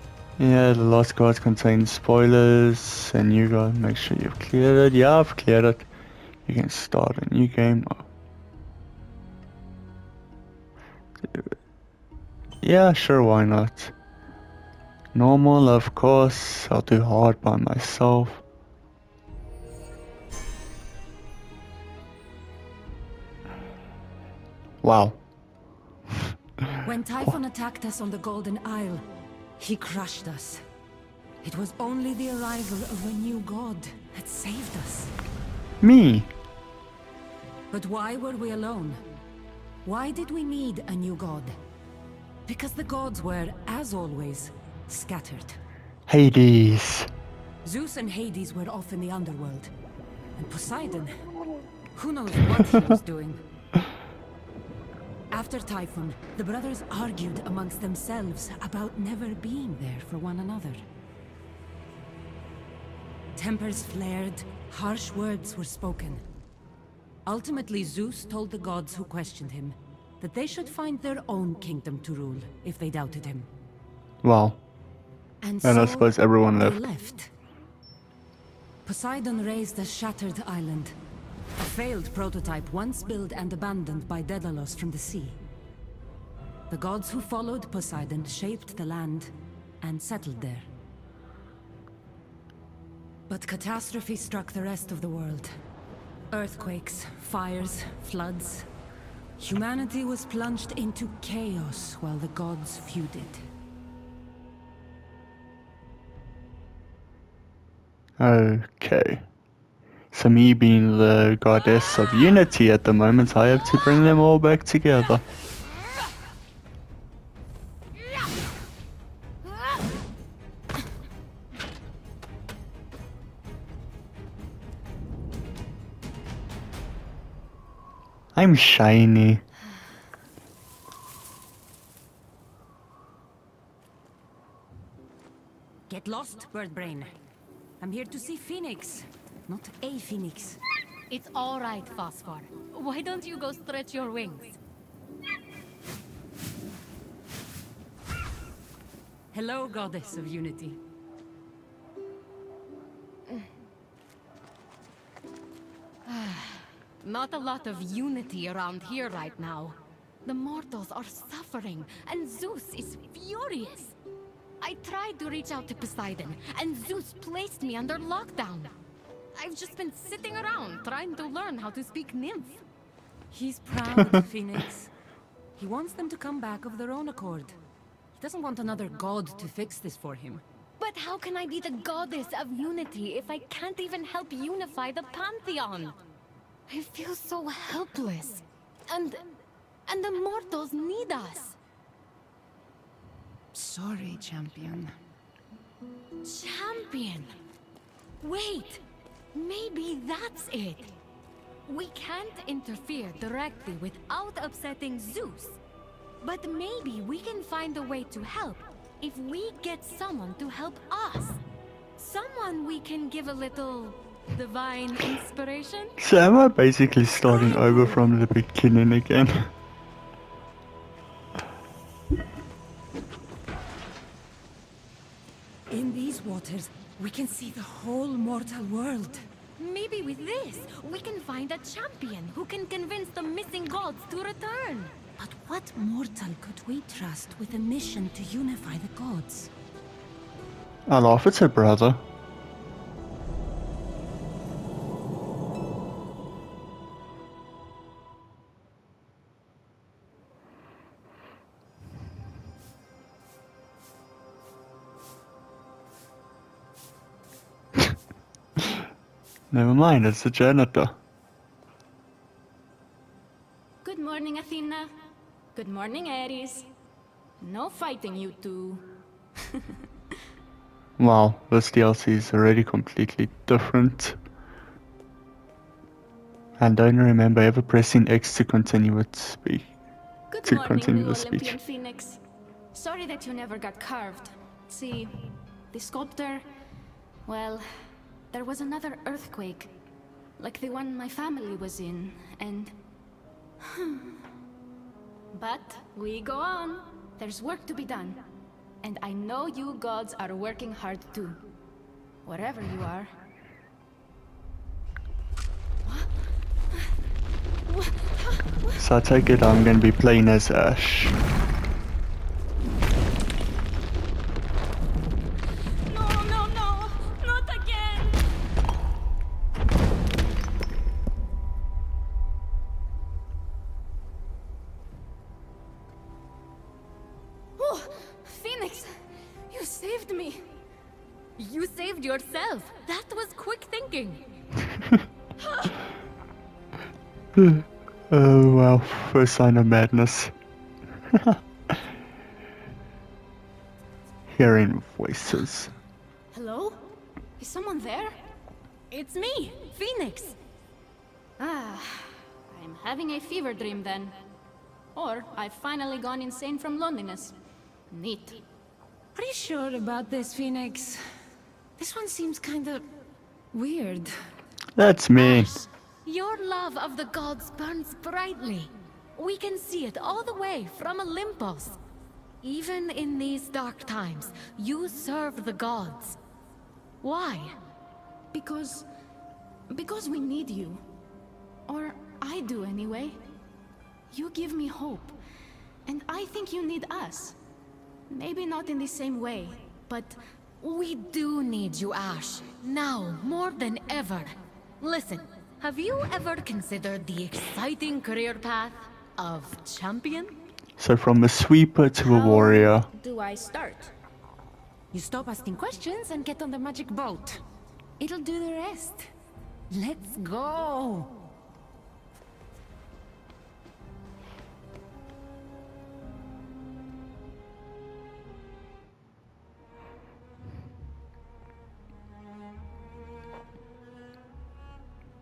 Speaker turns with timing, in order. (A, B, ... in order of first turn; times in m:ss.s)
0:00.4-0:05.9 A
0:06.4-0:08.1 A
0:11.2-0:11.5 A
0:12.6-0:13.9 A
0:15.1-0:18.4 A
0:24.8-0:25.2 A
0:26.8-0:29.1 B
0:29.6-0:30.6 B
0:31.4-0:35.1 B
0:35.8-0:36.3 A
0:37.7-0:39.0 B
0:39.8-0:41.6 B
0:42.4-0:45.6 B
0:46.1-0:47.1 A
0:47.6-0:49.7 B
0:50.4-0:51.2 B
0:51.9-0:53.4 B
0:55.3-1:00.8 B
1:03.4-1:06.2 B
1:07.2-1:13.5 B
1:14.2-1:14.6 A
1:15.4-1:17.3 B
1:15.6-1:16.8 A
1:18.8-1:20.9 B
1:21.6-1:25.4 B
1:26.7-1:30.7 B
1:33.3-1:35.5 B
1:36.3-1:38.7 B
1:39.4-1:43.4 B
1:48.2-1:49.2 A
1:50.1-1:55.2 A
2:08.3-2:09.4 A
2:15.9-2:17.2 B
2:17.8-2:20.6 B
2:21.1-2:24.6 C
2:29.3-2:30.8 B
2:36.0-2:43.9 C
2:44.6-2:48.7 C
2:49.3-2:52.6 C
2:53.3-2:54.9 B
2:55.6-2:57.6 B
2:58.2-3:00.4 B
3:00.8-3:06.0 C
3:06.7-3:09.2 C
3:09.9-3:11.6 C
3:13.5-3:14.9 B
3:16.2-3:17.3 C
3:18.2-3:21.0 C
3:21.6-3:25.6 C
3:26.2-3:31.4 C
3:32.0-3:36.0 C
3:36.0-3:39.5 A
3:37.3-3:38.0 C
3:45.7-3:49.2 B
3:49.6-3:55.0 C
3:55.2-3:59.5 B
4:00.9-4:02.0 A
4:19.5-4:21.0 A
4:23.8-4:24.9 D
4:25.5-4:26.7 D
4:27.4-4:28.8 D
4:29.4-4:29.8 D
4:31.0-4:34.2 A
4:36.6-4:39.7 A
4:40.3-4:42.2 D
4:40.4-4:41.6 A
4:42.7-4:46.4 D
4:47.2-4:47.7 D
4:48.3-4:49.7 D
4:50.4-4:52.8 D
4:53.6-4:54.1 D
4:55.3-4:58.2 D
4:58.8-5:01.4 D
5:02.2-5:03.1 D
5:07.7-5:08.8 D
5:08.8-5:11.2 A
5:15.8-5:18.3 D
5:27.6-5:30.5 D
5:31.4-5:34.3 C
5:37.4-5:40.3 A
5:41.1-5:41.4 A
5:44.3-5:45.7 A
5:46.3-5:46.8 D
5:47.4-5:48.2 D
5:48.9-5:50.4 C
5:51.4-5:54.1 D
5:54.9-5:57.3 D
5:57.9-5:58.4 D
5:59.1-6:01.0 B
6:01.8-6:03.0 B
6:03.5-6:04.3 B
6:04.8-6:05.5 A
6:05.2-6:11.8 C
6:12.4-6:16.2 C
6:17.0-6:17.6 C
6:18.3-6:18.9 D
6:19.7-6:20.8 D
6:21.7-6:23.2 D
6:24.1-6:25.1 D
6:25.8-6:27.4 D
6:28.1-6:30.2 D
6:30.6-6:40.4 C
6:40.8-6:42.9 A
6:42.0-6:43.9 D
6:44.9-6:47.4 B
6:48.0-6:49.1 B
6:49.7-6:51.1 B